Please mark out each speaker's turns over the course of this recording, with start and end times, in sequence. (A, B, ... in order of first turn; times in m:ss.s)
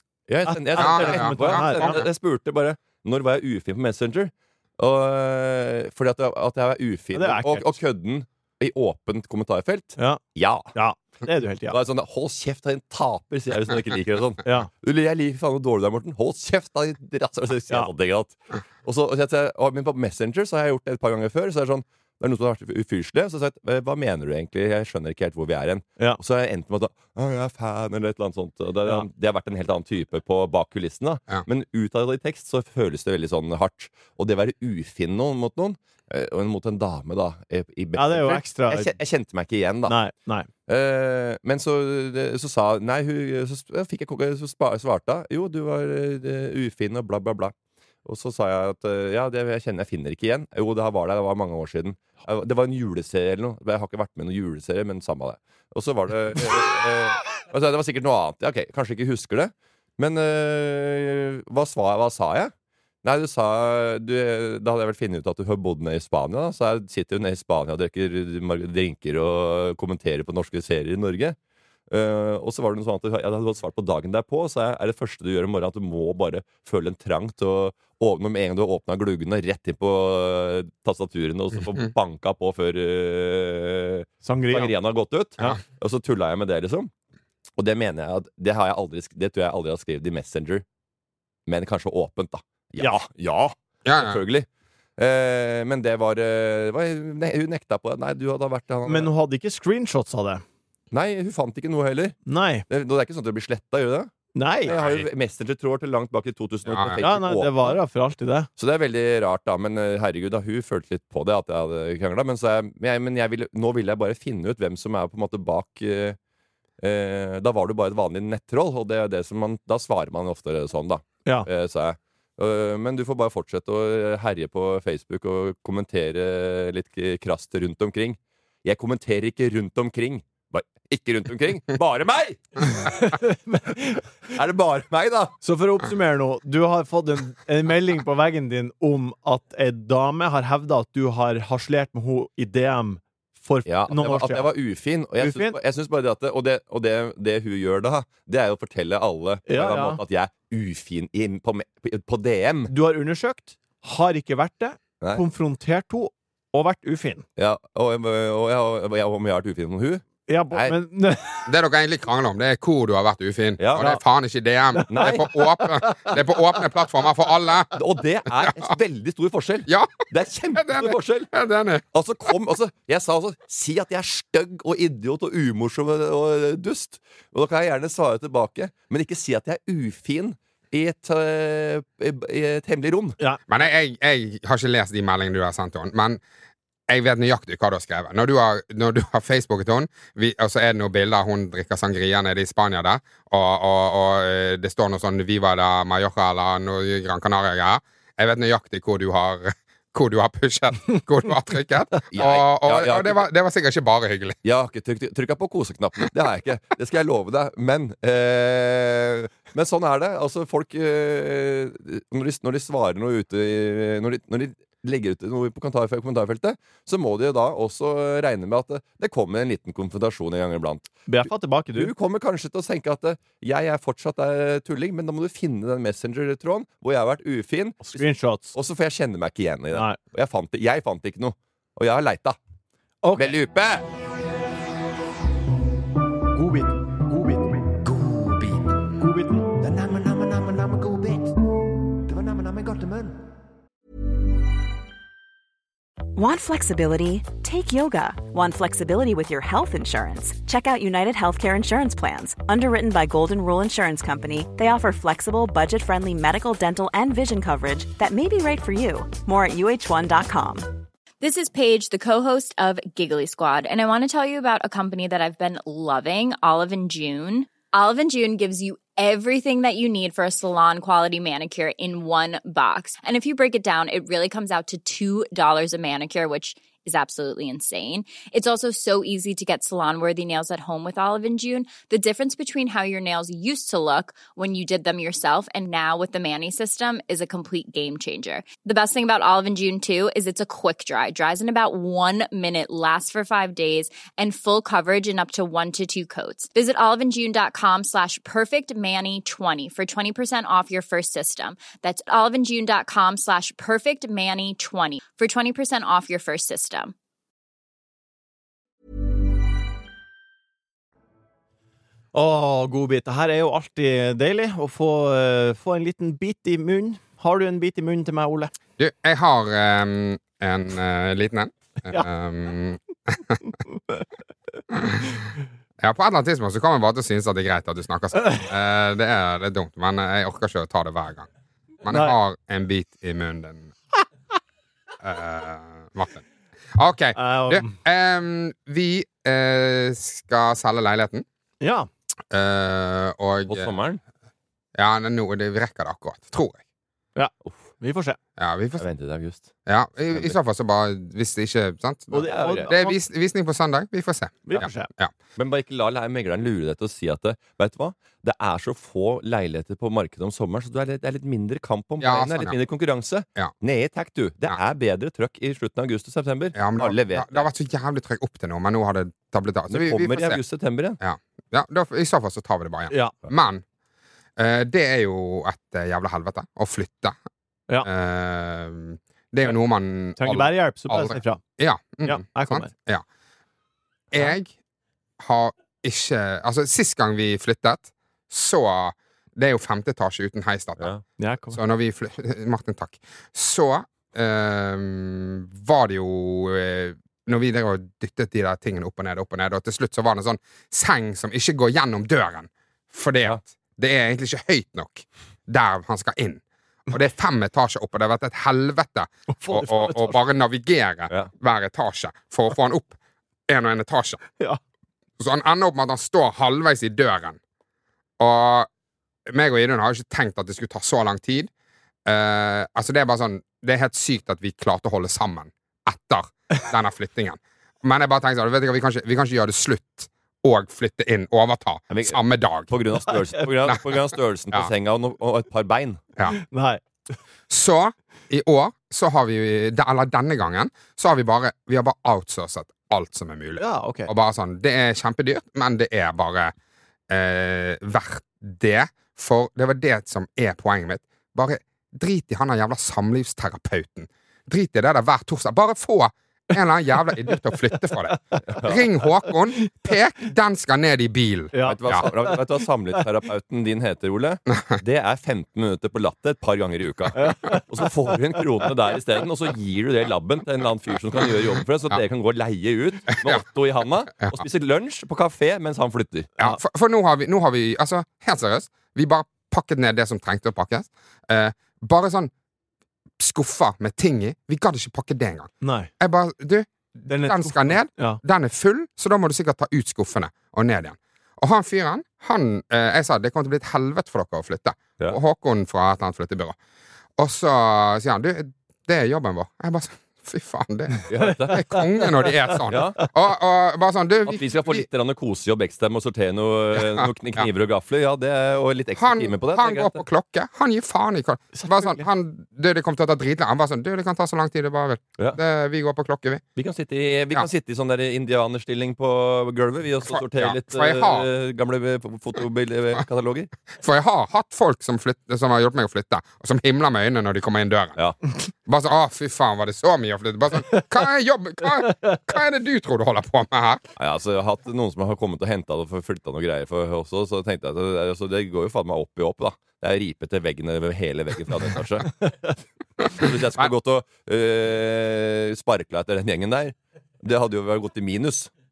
0:00.3-0:10.7 A
0:00.4-0:02.0 B
0:00.8-0:02.0 C
0:07.1-0:07.8 B
0:10.7-0:11.8 B
0:11.7-0:40.0 A
0:14.4-0:14.7 B
0:38.0-0:38.9 B
0:39.9-0:40.5 B
0:40.7-0:47.5 A
0:48.0-1:11.4 A
1:11.9-1:26.9 A
1:24.2-1:24.8 B
1:27.6-1:30.6 A
1:31.5-1:39.1 A
1:33.9-1:34.2 C
1:38.9-1:40.4 B
1:40.9-1:42.2 A
1:42.3-1:42.7 B
1:42.7-1:44.1 A
1:44.4-1:44.8 B
1:44.6-1:47.8 A
1:44.8-1:45.0 C
1:46.7-1:47.0 C
1:47.0-1:48.5 B
1:48.6-1:56.2 A
1:56.8-2:12.9 A
2:12.8-2:14.1 B
2:14.3-2:15.4 A
2:15.4-2:24.5 B
2:23.7-2:32.7 A
2:25.2-2:25.6 B
2:29.5-2:30.0 B
2:32.7-2:37.2 B
2:37.4-2:40.8 A
2:40.3-2:41.5 B
2:41.5-2:47.7 C
2:43.6-2:43.9 A
2:44.7-2:46.2 B
2:44.9-2:45.3 A
2:47.7-2:51.3 A
2:49.7-2:50.0 C
2:50.6-2:51.8 C
2:51.9-3:03.2 A
3:03.5-3:06.2 C
3:06.9-3:24.4 C
3:22.1-3:23.2 A
3:24.4-3:52.4 A
3:41.1-3:41.9 B
3:47.8-3:48.6 B
3:49.7-3:50.0 B
3:53.0-3:53.3 B
3:53.2-3:53.8 A
3:56.3-3:57.7 B
3:57.8-3:59.0 A
3:59.0-3:59.5 B
3:59.5-4:01.4 A
4:02.0-4:03.3 A
4:06.2-4:20.8 D
4:21.2-5:06.9 E
5:12.1-5:18.5 B
5:18.8-5:23.4 C
5:24.7-5:25.2 C
5:25.8-5:31.3 C
5:31.8-5:33.7 C
5:31.9-5:32.2 B
5:35.0-5:36.2 C
5:36.8-5:41.2 C
5:37.2-5:37.8 B
5:41.6-5:41.9 B
5:42.3-5:43.7 C
5:43.5-5:44.0 A
5:44.8-5:46.6 C
5:47.2-5:48.2 B
5:48.4-5:48.8 C
5:48.8-5:49.5 A
5:49.7-5:55.1 C
5:50.1-5:50.4 A
5:52.1-5:53.0 B
5:52.2-5:52.7 A
5:54.5-5:54.9 B
5:55.4-6:07.5 A
6:02.0-6:02.6 C
6:06.6-6:10.4 C
6:09.7-6:11.0 A
6:11.0-6:13.6 C
6:14.4-6:17.2 C
6:17.8-6:23.0 C
6:20.2-6:21.4 B
6:22.0-6:22.7 B
6:24.1-6:24.5 C
6:25.2-6:30.9 C
6:30.8-6:31.0 A
6:31.2-6:31.6 B
6:31.5-6:53.0 C
6:49.3-6:50.2 B
6:53.5-6:54.2 C
6:55.2-6:57.4 C
6:58.2-6:58.7 C
6:59.3-7:01.5 C
7:02.1-7:12.7 C
7:11.9-7:16.0 A
7:16.3-7:16.8 B
7:17.5-7:26.5 C
7:23.6-7:24.1 B
7:27.1-7:42.1 C
7:38.5-7:38.9 A
7:41.5-7:43.0 B
7:41.6-7:56.3 A
7:47.2-7:47.7 B
7:56.4-8:02.3 C
8:03.2-8:16.6 C
8:05.6-8:05.9 B
8:07.1-8:08.2 B
8:17.2-8:24.8 C
8:21.1-8:21.8 A
8:22.7-8:23.0 A
8:24.2-8:30.0 A
8:29.0-8:36.4 C
8:31.5-8:32.1 B
8:36.6-8:43.5 A
8:40.1-8:41.3 C
8:43.8-8:48.0 C
8:48.7-8:53.8 C
8:54.0-9:02.1 A
9:03.1-9:08.5 A